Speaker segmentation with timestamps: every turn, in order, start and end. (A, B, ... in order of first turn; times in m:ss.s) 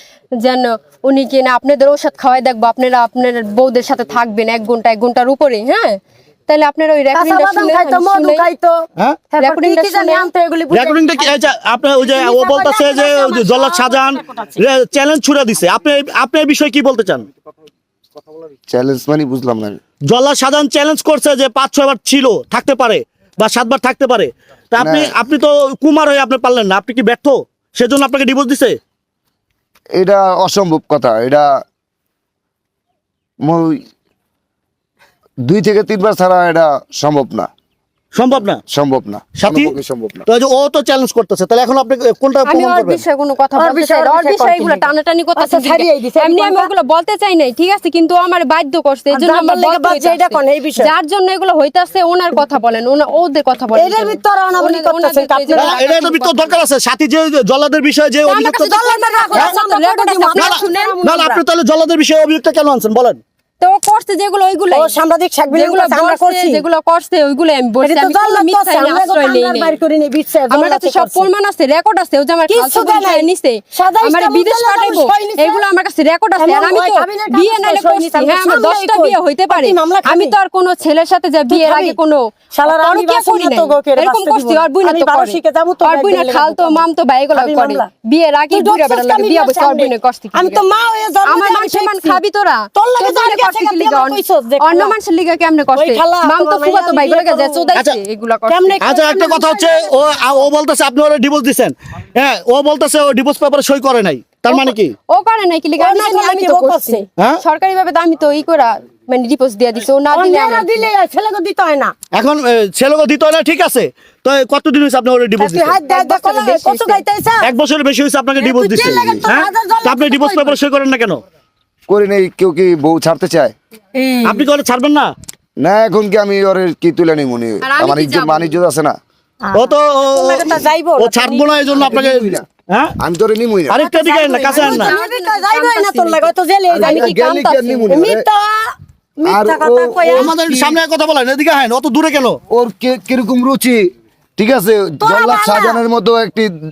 0:00.4-0:08.5 A
0:07.1-0:11.4 B
0:09.4-0:10.3 A
0:10.7-0:17.2 C
0:12.0-0:14.5 B
0:18.7-0:19.8 D
0:20.0-0:28.8 C
0:24.8-0:25.1 D
0:29.9-0:31.5 D
0:33.4-0:33.8 D
0:35.4-0:37.5 D
0:38.1-0:38.6 C
0:38.7-0:40.3 D
0:39.4-0:39.8 C
0:40.3-0:43.0 C
0:42.4-0:56.5 A
0:43.6-0:46.7 B
0:49.1-0:50.9 B
0:53.8-0:55.8 B
0:55.5-0:58.8 C
0:58.2-1:00.9 A
0:58.4-1:01.4 B
1:00.4-1:03.2 C
1:03.6-1:05.0 A
1:04.7-1:06.6 B
1:05.5-1:09.7 A
1:07.8-1:11.3 B
1:10.5-1:30.6 A
1:12.5-1:15.6 B
1:16.4-1:20.3 B
1:21.5-1:22.0 B
1:22.5-1:26.8 B
1:27.3-1:27.9 B
1:28.5-1:32.2 B
1:31.2-1:38.8 A
1:32.7-1:34.9 B
1:35.8-1:37.7 B
1:37.7-1:38.0 C
1:38.5-1:40.3 B
1:38.8-1:44.9 C
1:44.5-1:50.9 A
1:45.8-1:47.0 B
1:50.1-1:51.9 B
1:52.1-1:55.8 C
1:55.4-1:57.5 B
1:55.9-1:57.0 A
1:57.4-2:01.2 C
1:58.4-2:00.6 B
1:58.8-1:59.2 D
2:01.9-2:03.5 D
2:03.9-2:04.5 B
2:04.2-2:05.1 C
2:05.6-2:09.0 D
2:07.6-2:08.5 A
2:09.4-2:11.8 B
2:09.5-2:12.9 C
2:11.7-2:12.5 D
2:13.0-2:13.8 D
2:13.7-2:15.0 C
2:13.7-2:17.1 B
2:14.5-2:16.3 A
2:16.7-2:18.2 D
2:16.8-2:18.0 A
2:17.9-2:20.3 B
2:19.2-2:20.8 D
2:20.1-2:22.4 C
2:22.5-2:26.5 D
2:25.0-2:25.8 B